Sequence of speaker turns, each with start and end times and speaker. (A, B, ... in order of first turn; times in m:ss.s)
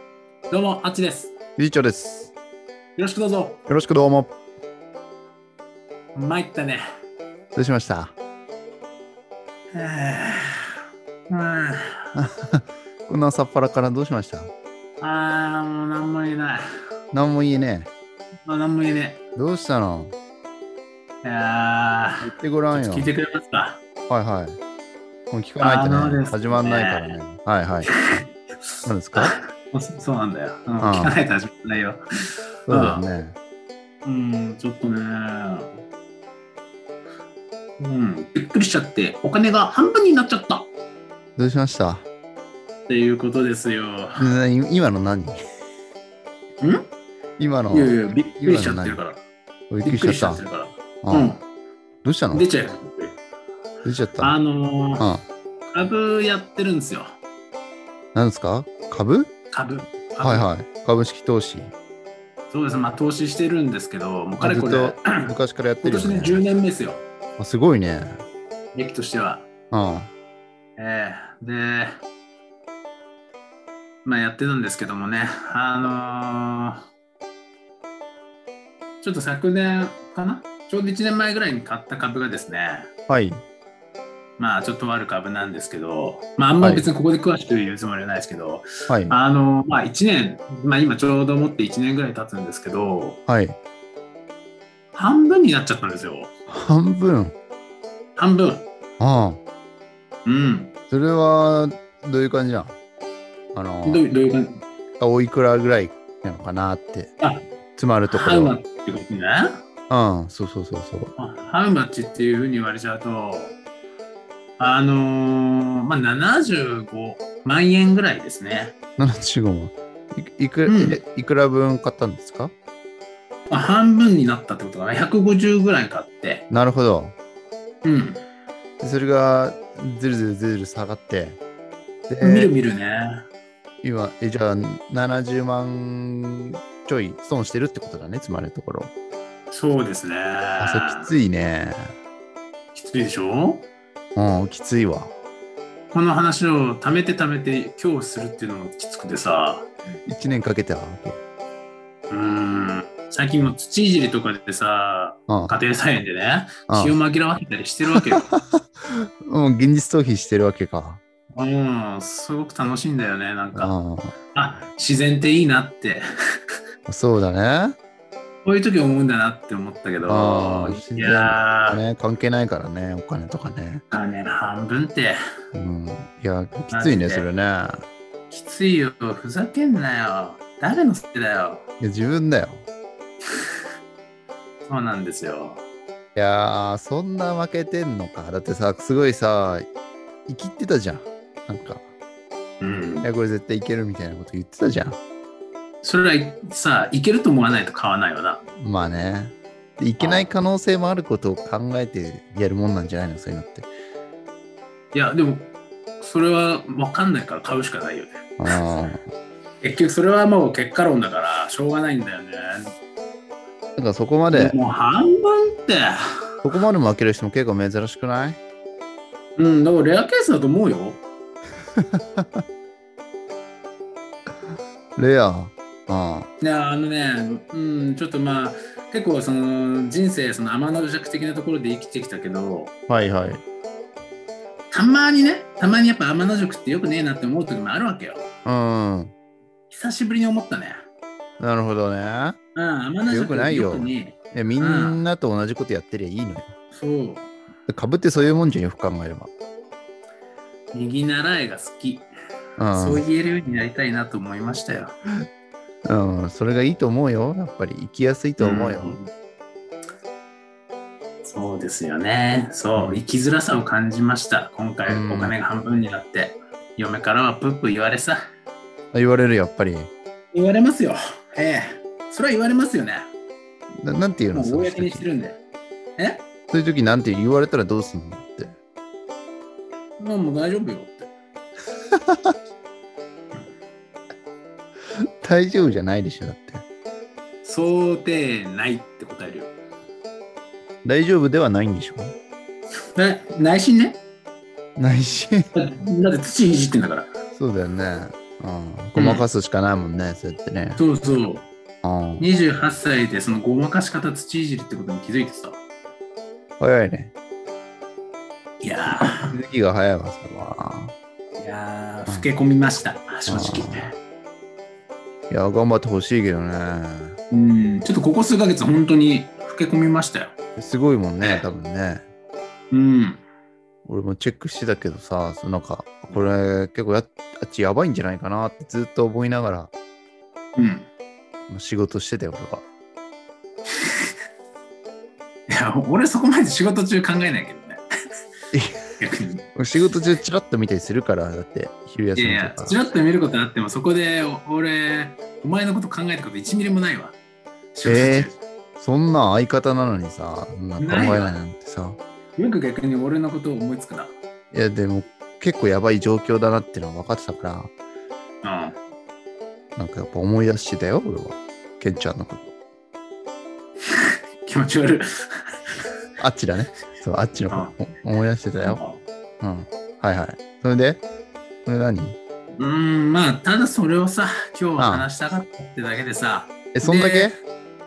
0:00.5-0:01.3 A
0:01.6-0:02.3 B
0:03.0-0:03.6 A
0:03.7-0:04.3 B
0:06.1-0:06.8 A
0:07.6-0:08.1 B
0:09.7-0:10.8 A
0:11.3-0:12.0 A
0:12.1-0:14.5 B
0:15.0-0:16.7 A
0:17.1-0:17.9 B
0:18.5-0:19.2 A
0:19.4-0:20.1 B
0:21.2-0:23.8 A
0:22.2-0:23.1 B
0:24.1-0:24.6 B
0:25.3-0:28.2 B
0:25.6-0:27.2 A
0:27.9-0:32.0 A
0:28.9-0:29.3 B
0:30.8-0:31.2 B
0:32.7-0:33.0 A
0:32.7-0:33.3 B
0:34.0-0:35.8 A
0:37.8-0:40.7 A
0:41.4-0:42.0 B
0:42.9-0:44.3 A
0:44.2-0:45.4 B
0:46.6-0:46.9 A
0:47.4-0:49.0 B
0:47.7-0:49.2 A
0:49.7-0:50.4 B
0:49.8-0:51.4 A
0:51.0-0:51.3 B
0:52.0-0:52.5 B
0:52.3-0:53.2 A
0:53.8-0:54.4 B
0:54.2-0:55.0 A
0:55.0-0:55.2 B
0:55.7-0:57.2 A
0:58.1-0:59.3 B
0:59.5-1:00.5 A
1:00.2-1:01.7 B
1:02.5-1:07.0 A
1:04.4-1:06.4 B
1:07.4-1:08.2 B
1:08.7-1:09.5 A
1:09.7-1:10.1 B
1:10.8-1:12.0 A
1:14.0-1:16.8 A
1:19.0-1:22.9 A
1:23.1-1:23.4 B
1:24.4-1:33.2 A
1:26.6-1:26.9 B
1:28.9-1:29.2 B
1:33.3-1:33.6 B
1:34.9-1:36.3 A
1:36.5-1:37.3 B
1:38.2-1:38.7 A
1:39.0-1:39.4 B
1:40.2-1:40.7 A
1:40.9-1:42.8 B
1:43.5-1:44.0 B
1:43.8-1:44.6 A
1:45.0-1:47.1 B
1:47.8-1:48.5 B
1:48.1-1:49.6 A
1:49.9-1:51.1 B
1:51.2-1:53.6 A
1:54.6-1:58.7 A
1:59.0-2:02.5 B
2:00.6-2:01.0 A
2:03.5-2:06.4 A
2:06.5-2:07.1 B
2:07.8-2:08.2 A
2:08.8-2:11.4 B
2:12.1-2:12.5 B
2:12.2-2:13.2 A
2:13.8-2:18.9 B
2:19.5-2:21.1 A
2:20.6-2:21.9 B
2:22.8-2:23.7 A
2:24.2-2:25.1 B
2:25.9-2:29.7 A
2:30.1-2:31.2 B
2:32.1-2:38.3 A
2:35.3-2:35.5 B
2:36.7-2:37.0 B
2:38.0-2:41.0 B
2:41.4-2:43.7 A
2:43.5-2:44.2 B
2:44.3-2:46.0 A
2:46.9-2:47.8 B
2:48.4-2:51.8 A
2:50.1-2:53.8 B
2:53.9-2:55.2 A
2:55.5-2:57.8 B
2:56.7-2:57.3 A
2:58.3-3:01.6 A
3:01.8-3:02.7 B
3:04.7-3:05.6 A
3:06.1-3:09.7 B
3:10.3-3:11.9 B
3:12.6-3:13.1 A
3:13.0-3:15.0 B
3:15.8-3:18.4 A
3:18.6-3:23.7 B
3:20.0-3:20.3 A
3:24.9-3:28.6 A
3:28.4-3:29.1 B
3:29.6-3:32.7 A
3:33.8-3:34.6 B
3:34.3-3:36.0 A
3:36.4-3:38.4 B
3:39.4-3:41.0 A
3:41.8-3:42.4 B
3:45.0-3:46.3 B
3:46.4-3:52.7 A
3:52.9-3:53.4 B
3:54.7-3:58.2 A
3:58.4-3:59.1 B
3:59.7-4:00.8 A
4:01.4-4:02.4 B
4:02.6-4:05.0 A
4:03.1-4:06.5 B
4:06.7-4:07.3 A
4:07.7-4:09.3 B
4:10.7-4:12.1 A
4:12.6-4:13.0 B
4:12.7-4:14.9 A
4:15.8-4:19.0 B
4:18.4-4:19.1 A
4:21.2-4:28.2 A
4:22.8-4:23.0 B
4:24.9-4:25.3 B
4:28.9-4:29.9 B
4:30.3-4:33.1 A
4:33.8-4:35.1 B
4:34.3-4:35.4 A
4:36.0-4:36.2 A
4:36.5-4:38.5 B
4:40.0-4:41.1 A
4:41.9-4:42.3 B
4:44.9-4:46.6 B
4:47.4-4:49.5 A
4:50.8-4:52.1 B
4:53.0-4:54.0 A
4:54.8-4:55.5 B
4:55.5-4:57.1 A
4:57.4-5:00.8 B
4:58.9-4:59.2 A
5:00.8-5:01.4 A
5:01.8-5:02.3 B
5:02.2-5:05.6 A
5:06.6-5:07.1 B
5:08.6-5:09.3 A
5:08.9-5:10.9 B
5:11.4-5:13.9 A
5:13.3-5:13.9 B
5:15.3-5:17.2 B
5:17.3-5:20.3 A
5:20.6-5:22.0 B
5:22.7-5:23.2 A
5:23.8-5:29.7 B
5:30.6-5:30.9 A
5:31.5-5:32.6 B
5:35.5-5:37.8 A
5:38.5-5:38.8 B
5:39.0-5:39.4 A
5:39.6-5:42.8 B
5:42.2-5:47.2 A
5:47.7-5:48.4 A
5:47.8-5:52.0 B
5:50.8-5:51.4 A
5:52.4-5:54.1 A
5:54.5-5:57.7 B
5:58.4-5:58.8 A
5:59.8-6:02.5 B
6:03.9-6:05.1 A
6:06.2-6:08.8 B
6:08.6-6:09.0 A
6:09.4-6:11.0 B
6:11.6-6:12.2 B
6:12.6-6:17.3 A
6:14.8-6:15.1 B
6:16.7-6:17.4 B